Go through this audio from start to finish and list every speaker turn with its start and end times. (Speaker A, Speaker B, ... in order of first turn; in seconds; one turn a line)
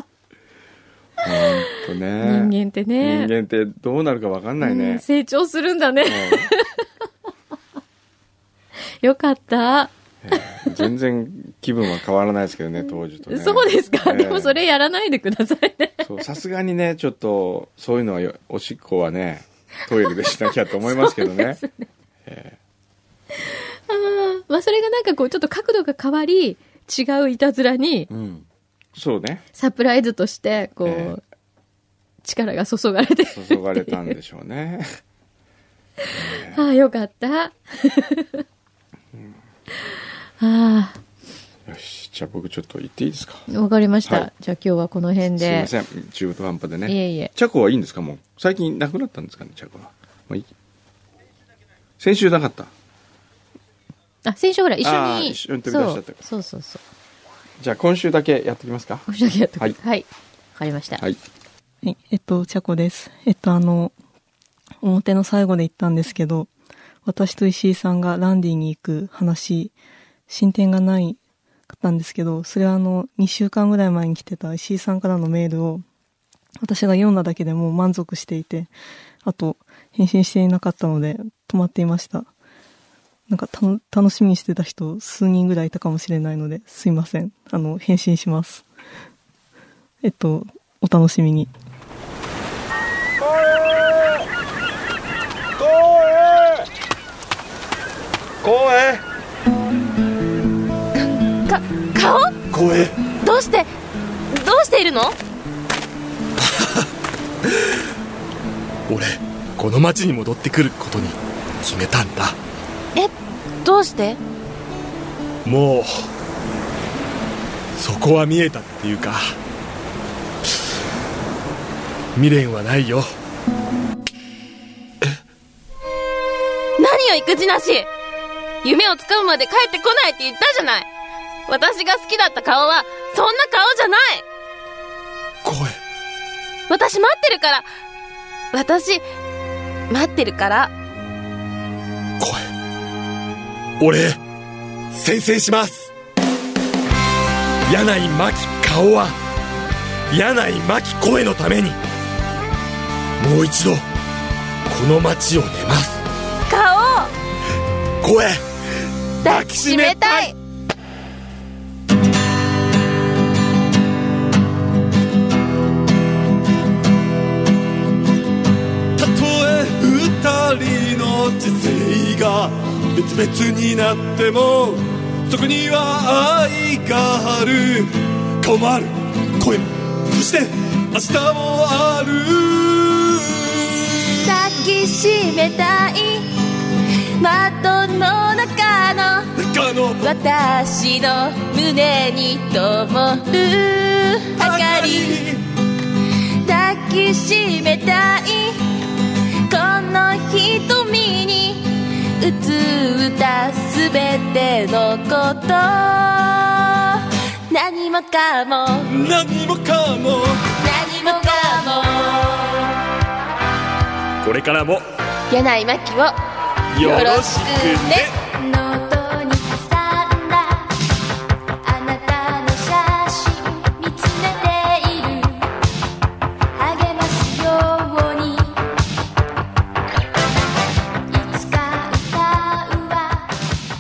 Speaker A: 1.2-5.0
Speaker B: 1.3-3.3
Speaker B: 4.6-6.9
Speaker A: 6.0-6.5
Speaker B: 9.0-10.8
Speaker A: 10.2-14.6
Speaker B: 13.3-16.2
Speaker A: 16.0-21.6
Speaker B: 20.8-21.9
Speaker A: 22.2-22.6
Speaker B: 23.3-28.1
Speaker A: 28.1-29.4
Speaker B: 29.6-31.2
Speaker A: 30.9-31.2
Speaker B: 32.2-34.1
Speaker A: 33.2-34.9
Speaker B: 36.0-38.4
Speaker A: 36.1-36.7
Speaker B: 40.4-41.0
Speaker A: 41.7-43.5
Speaker B: 43.5-45.7
Speaker A: 45.3-50.5
Speaker B: 46.9-47.3
Speaker A: 52.0-52.7
Speaker B: 54.2-56.8
Speaker A: 54.8-56.2
Speaker A: 57.6-59.1
Speaker B: 59.1-61.0
Speaker C: 61.8-64.0
Speaker C: 64.8-66.5
Speaker C: 67.0-69.7
Speaker C: 70.3-71.2
Speaker C: 71.7-75.8
Speaker C: 76.6-78.7
Speaker C: 79.2-82.3
Speaker C: 83.3-88.7
Speaker C: 90.0-91.5
Speaker D: 95.7-96.5
Speaker D: 98.4-99.0
Speaker E: 101.5-102.4
Speaker D: 102.5-103.0
Speaker E: 103.1-103.7
Speaker E: 104.3-105.2
Speaker D: 106.4-106.9
Speaker D: 108.9-112.4
Speaker E: 113.0-114.2
Speaker D: 115.5-116.1
Speaker D: 117.8-119.3
Speaker D: 122.2-123.1
Speaker E: 126.8-127.9
Speaker E: 128.6-130.9
Speaker E: 131.5-134.2
Speaker D: 135.4-135.8
Speaker E: 136.7-137.7
Speaker E: 138.5-139.1
Speaker E: 139.9-140.7
Speaker D: 142.2-142.5
Speaker D: 143.8-144.2
Speaker D: 144.9-145.9
Speaker D: 147.7-149.2
Speaker D: 150.1-151.8
Speaker D: 153.2-153.8
Speaker D: 154.7-156.0
Speaker E: 156.5-157.1
Speaker D: 158.0-158.4
Speaker E: 159.2-160.3
Speaker D: 159.2-160.3
Speaker D: 169.0-183.9
Speaker E: 184.2-186.4
Speaker E: 187.2-189.3
Speaker D: 189.4-190.1
Speaker E: 190.0-195.2
Speaker D: 194.4-195.4
Speaker E: 196.4-198.6
Speaker E: 199.5-208.9
Speaker D: 208.9-210.4
Speaker E: 210.6-212.7
Speaker D: 214.2-214.8
Speaker E: 215.3-216.2
Speaker D: 216.7-218.1
Speaker E: 216.8-220.8
Speaker E: 221.6-225.5
Speaker E: 226.6-228.6
Speaker E: 231.1-233.4